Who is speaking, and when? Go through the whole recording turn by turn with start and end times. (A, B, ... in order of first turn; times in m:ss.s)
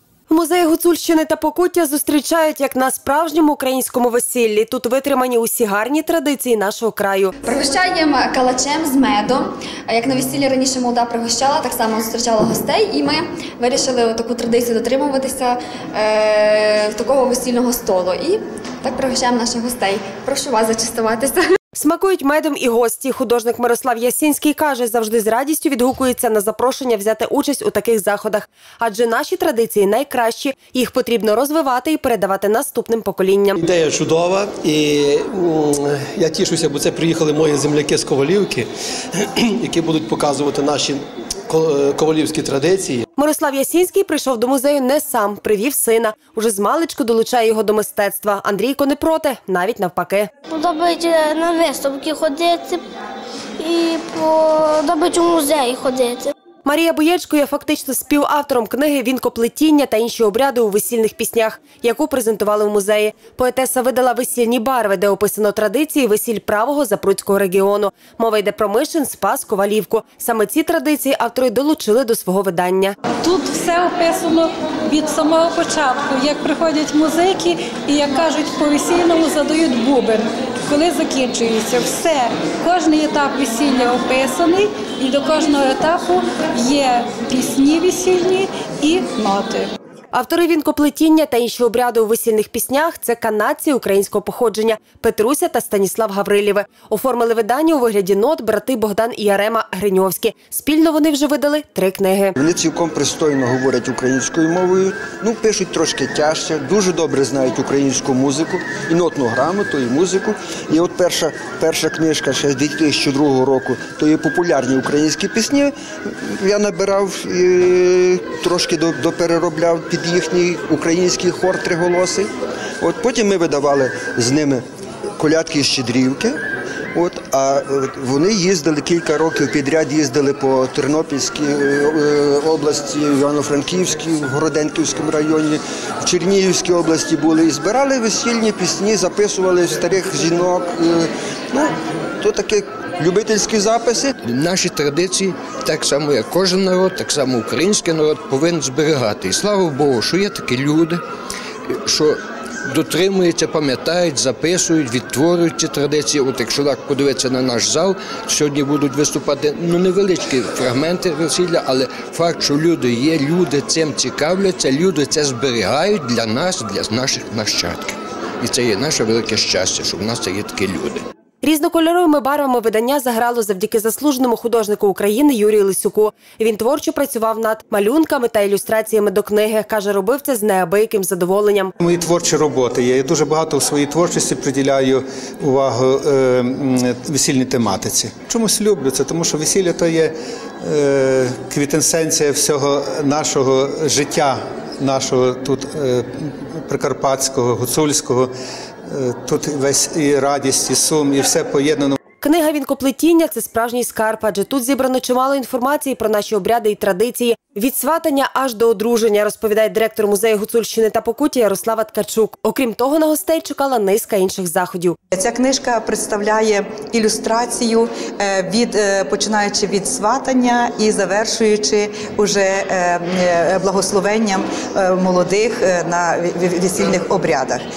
0:00.3-0:07.3 A
0:07.4-0:21.5 B
0:21.8-0:33.6 A
0:33.6-0:38.7 C
0:39.4-0:43.0 C
0:43.2-0:50.3 A
0:50.5-0:52.8 D
0:53.6-0:56.3 D
0:56.6-1:13.0 A
1:13.1-1:29.7 E
1:30.1-1:42.4 A
1:42.4-2:04.6 F
2:05.2-2:06.4 F
2:06.9-2:24.1 F
2:24.2-2:31.0 G
2:31.7-2:32.2 G
2:32.7-2:51.0 G
2:51.4-3:01.7 A
3:01.8-3:18.3 H
3:18.9-3:22.0 H
3:22.2-3:35.0 A
3:35.1-3:47.6 I